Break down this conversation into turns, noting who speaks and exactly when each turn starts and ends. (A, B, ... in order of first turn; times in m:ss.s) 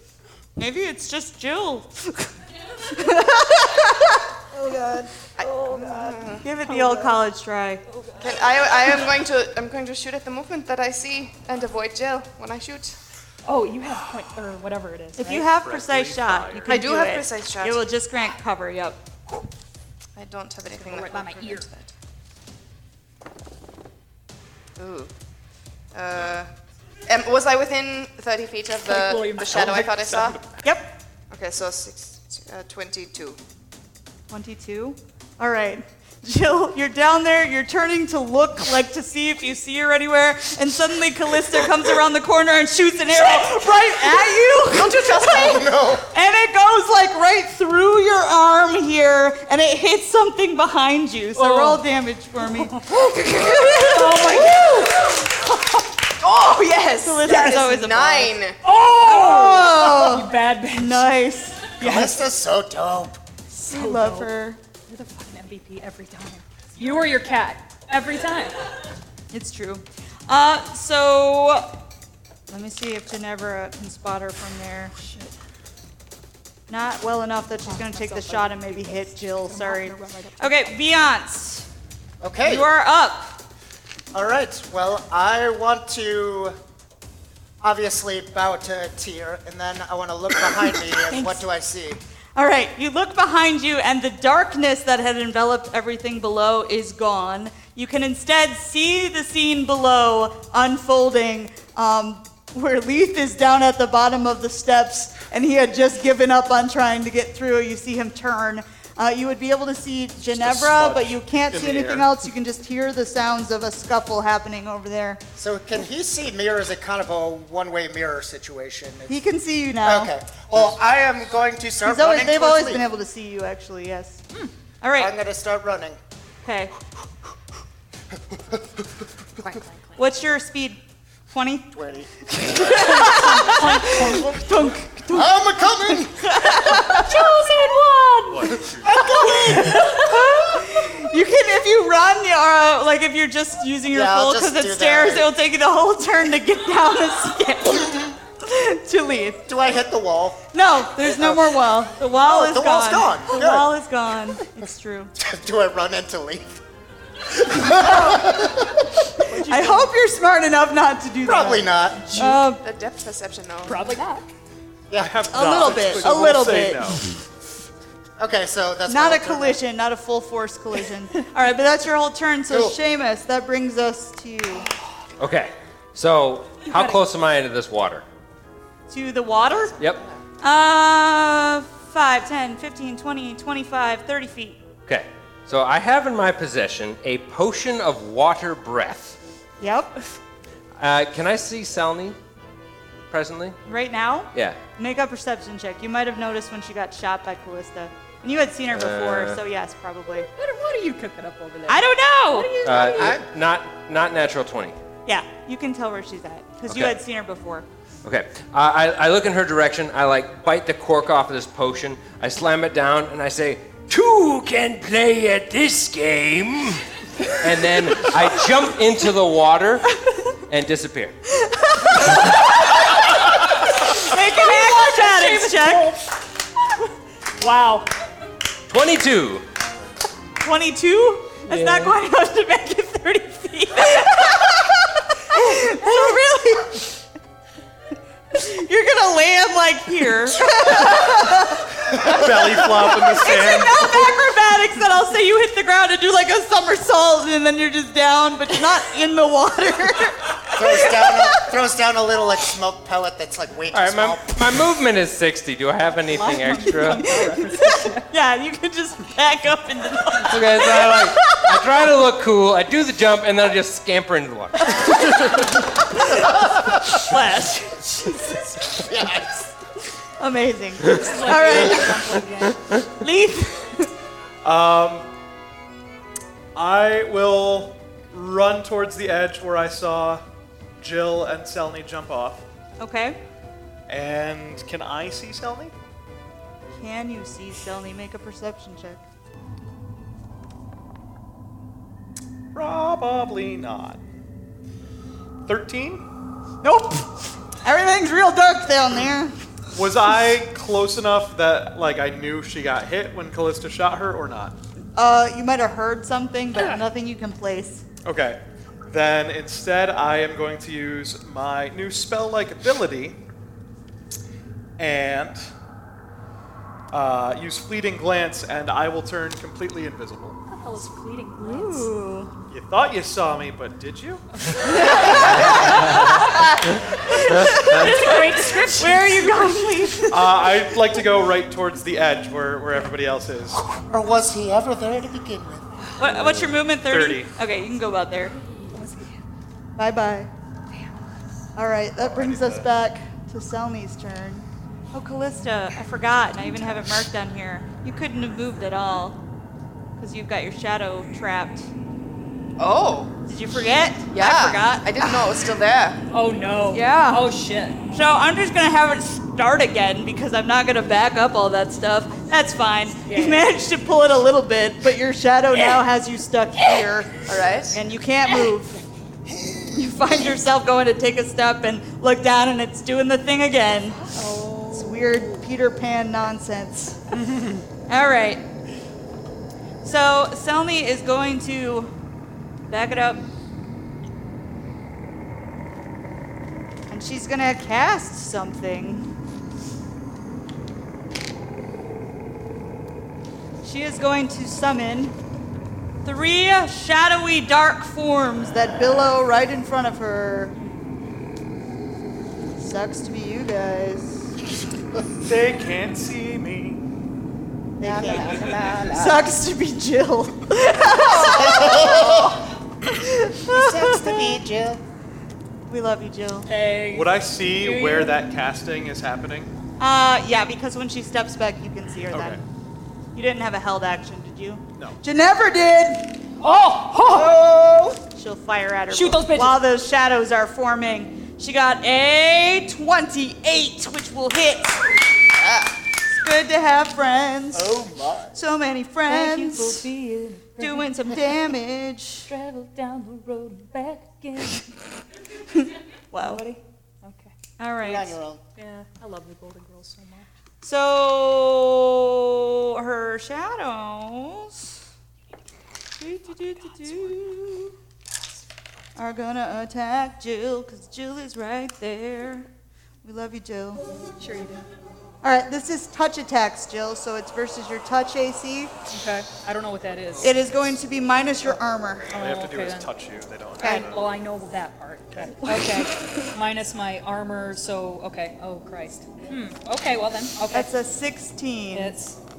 0:00.6-0:02.3 A
0:02.9-0:04.2 A
0:05.4-0:06.5 B
0:05.4-0:06.1 C
0:06.4-0:07.8 A
0:06.6-0:07.2 C
0:07.9-0:08.3 C
0:08.2-0:13.0 B
0:13.4-0:15.5 C
0:15.2-0:19.0 A
0:15.5-0:16.8 D
0:16.7-0:17.8 B
0:20.2-0:21.9 B
0:20.8-0:21.7 C
0:24.8-0:25.1 B
0:25.9-0:26.5 B
0:27.1-0:30.4 B
0:28.8-0:30.3 C
0:29.6-0:30.4 D
0:30.6-0:30.9 A
0:31.3-0:33.4 B
0:34.3-0:54.5 A
0:44.7-0:45.7 B
0:45.2-0:46.0 E
0:51.4-0:51.8 C
0:52.4-0:55.2 C
0:56.2-0:58.6 B
0:57.0-0:58.4 A
0:57.3-0:57.6 C
0:58.6-1:01.1 C
0:59.0-1:02.1 A
1:01.8-1:03.2 E
1:01.8-1:02.1 C
1:03.5-1:04.6 A
1:03.7-1:04.3 C
1:04.9-1:08.5 C
1:09.3-1:11.8 A
1:12.5-1:15.0 A
1:15.0-1:15.3 C
1:16.7-1:21.7 A
1:17.6-1:20.7 C
1:22.2-1:22.7 E
1:22.4-1:23.4 A
1:24.1-1:26.6 E
1:27.6-1:32.0 E
1:32.4-1:55.2 A
1:50.3-1:52.2 D
1:55.4-1:59.2 E
1:59.1-2:00.1 A
1:59.8-2:02.9 E
2:01.8-2:04.2 A
2:04.8-2:05.1 A
2:05.0-2:06.0 E
2:06.4-2:06.7 A
2:08.3-2:08.6 E
2:10.0-2:11.7 A
2:11.7-2:12.9 E
2:12.3-2:17.2 A
2:13.1-2:14.4 C
2:15.1-2:16.6 E
2:16.9-2:18.7 C
2:18.3-2:18.8 D
2:18.7-2:19.8 E
2:19.0-2:29.4 A
2:19.3-2:20.6 C
2:23.9-2:25.3 E
2:29.5-2:30.4 E
2:30.5-2:35.1 A
2:31.0-2:33.8 E
2:35.2-2:36.5 E
2:37.3-2:38.8 E
2:37.7-2:38.3 A
2:39.2-2:39.9 C
2:39.4-2:42.6 A
2:41.2-2:42.0 E
2:42.1-2:42.4 C
2:42.6-2:43.8 B
2:43.6-2:44.3 C
2:44.9-2:45.8 E
2:45.0-2:47.1 D
2:45.3-2:47.1 A
2:48.2-2:49.6 E
2:48.9-2:54.7 A
2:52.5-2:52.8 E
2:55.2-2:58.0 F
2:58.9-2:59.8 A
2:59.5-3:00.2 B
3:00.4-3:04.7 A
3:04.9-3:09.2 F
3:09.6-3:10.0 A
3:10.8-3:12.2 F
3:13.1-3:13.6 F
3:13.7-3:20.3 A
3:18.7-3:19.4 F
3:20.4-3:23.2 C
3:21.7-3:22.6 A
3:22.6-3:24.8 F
3:25.1-3:27.7 A
3:26.7-3:26.9 F
3:28.0-3:36.8 F
3:37.4-3:41.2 F
3:41.4-3:46.0 A
3:44.0-3:46.1 C
3:47.4-3:47.9 C
3:48.7-3:49.4 F
3:50.4-3:57.0 A
3:51.5-3:51.9 F
3:58.3-4:11.5 A
4:01.9-4:04.2 D
4:10.5-4:14.6 E
4:13.7-4:17.1 F
4:16.1-4:21.6 A
4:16.3-4:18.1 C
4:20.2-4:25.4 F
4:24.6-4:28.8 A
4:28.8-4:29.5 E
4:30.2-4:33.9 A
4:30.9-4:32.6 C
4:34.4-4:35.1 D
4:36.6-4:40.2 D
4:40.8-4:42.4 D
4:42.8-4:43.2 A
4:43.9-4:45.7 D
4:46.8-4:49.0 A
4:52.5-4:54.0 D
4:55.5-4:56.0 D
4:56.6-4:59.4 A
4:59.7-5:04.6 D
5:05.0-5:07.8 A
5:06.6-5:06.8 C
5:08.0-5:13.2 D
5:14.8-5:15.4 D
5:16.9-5:20.4 D
5:20.5-5:21.9 C
5:21.4-5:22.3 A
5:22.5-5:24.2 D
5:24.5-5:26.4 C
5:24.6-5:30.9 A
5:27.5-5:29.6 C
5:27.5-5:28.1 D
5:30.1-5:33.6 D
5:33.8-5:35.7 E
5:36.0-5:38.4 A
5:36.1-5:36.6 F
5:36.8-5:37.3 D
5:38.7-5:39.2 C
5:39.8-5:40.3 A
5:41.6-5:49.2 A
5:42.0-5:42.7 D
5:50.0-5:51.7 A
5:52.6-5:53.1 B
5:53.3-5:55.1 A
5:54.1-5:56.0 B
5:56.1-5:57.8 C
5:56.7-5:57.2 A
5:57.9-6:07.2 A
6:03.1-6:03.4 C
6:07.3-6:07.8 B
6:07.7-6:08.8 A
6:09.7-6:17.2 A
6:14.1-6:15.4 C
6:17.9-6:18.4 A
6:19.8-6:21.9 A
6:22.7-6:23.2 A
6:26.9-6:29.1 A
6:33.6-6:35.2 A
6:36.0-6:40.6 A
6:42.6-6:44.3 A
6:45.2-6:46.8 D
6:47.8-6:52.4 A
6:47.8-6:49.3 E
6:51.1-6:52.4 E
6:52.9-6:54.4 A
6:53.4-6:54.8 E
6:55.7-6:56.5 A
6:56.5-6:58.2 C
6:56.9-6:59.5 D
6:59.8-7:02.4 A
7:02.1-7:02.4 D
7:03.1-7:06.2 A
7:06.4-7:07.4 C
7:07.0-7:08.0 E
7:08.2-7:14.8 A
7:08.9-7:09.6 C
7:15.3-7:15.7 E
7:16.1-7:17.8 A
7:17.5-7:18.4 E
7:18.3-7:19.9 A
7:19.1-7:21.3 C
7:20.6-7:22.3 A
7:22.3-7:24.8 C
7:25.5-7:26.4 A
7:26.2-7:27.3 C
7:27.6-7:28.2 A
7:27.8-7:28.4 E
7:28.6-7:30.3 C
7:30.6-7:34.7 A
7:36.0-7:37.8 A
7:39.0-7:42.5 A
7:43.0-7:43.8 A
7:44.2-7:44.6 C
7:45.2-7:48.7 A
7:48.9-7:50.3 C
7:50.2-7:52.1 A
7:52.1-7:52.9 C
7:52.1-7:54.1 D
7:53.6-7:53.9 A
7:53.6-8:00.7 C
7:55.2-7:56.3 A
8:00.5-8:02.0 A
8:01.7-8:02.2 C